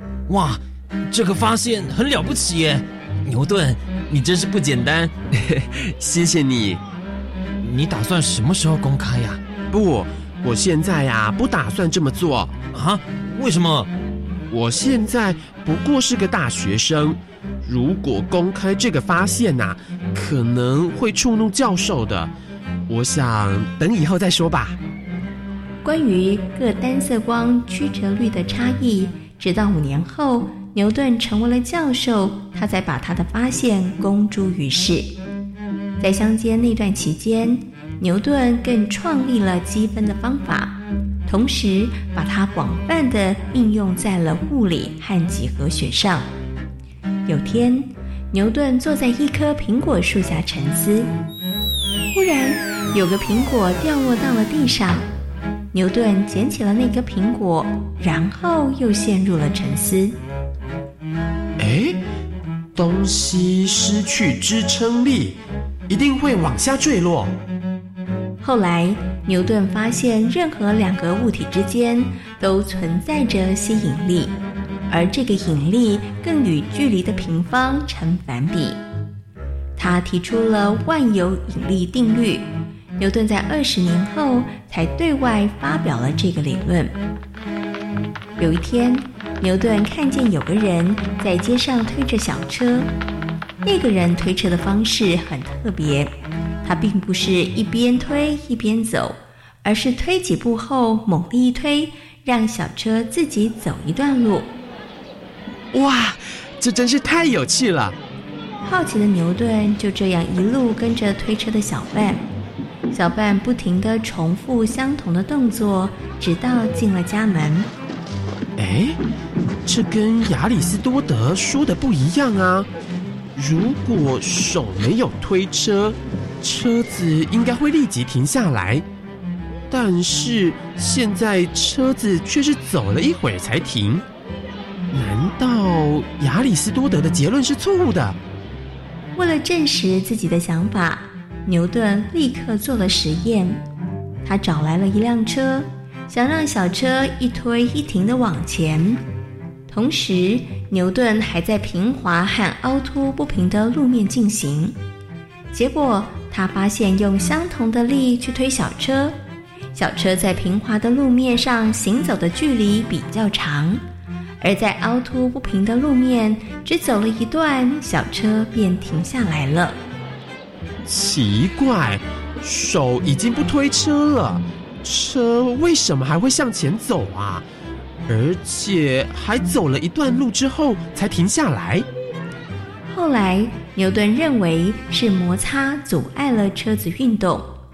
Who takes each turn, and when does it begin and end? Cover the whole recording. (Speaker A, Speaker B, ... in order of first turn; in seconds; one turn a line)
Speaker A: 0.3-5.6
Speaker B: 6.0-6.8
Speaker A: 7.6-9.4
Speaker B: 9.7-12.6
Speaker A: 12.7-13.9
Speaker B: 14.5-22.3
Speaker B: 22.9-24.8
Speaker C: 25.8-35.1
Speaker C: 36.0-46.3
Speaker C: 47.3-51.1
Speaker C: 52.1-55.1
Speaker C: 55.7-60.2
Speaker B: 61.6-62.0
Speaker B: 62.8-67.3
Speaker C: 68.4-74.3
Speaker C: 74.9-78.8
Speaker C: 79.8-87.0
Speaker C: 88.4-92.9
Speaker C: 93.6-96.1
Speaker C: 96.6-104.5
Speaker B: 105.7-108.0
Speaker C: 108.6-112.2
Speaker C: 112.9-117.7
Speaker B: 118.6-119.0
Speaker B: 119.7-122.7
Speaker B: 123.4-128.8
Speaker B: 129.7-134.0
Speaker B: 134.9-138.2
Speaker C: 139.2-143.6
Speaker C: 144.2-149.0
Speaker C: 149.7-154.8
Speaker C: 155.5-159.2
Speaker C: 159.7-163.8
Speaker C: 164.4-169.8
Speaker B: 170.9-177.4
Speaker B: 178.1-181.9
Speaker C: 182.9-187.5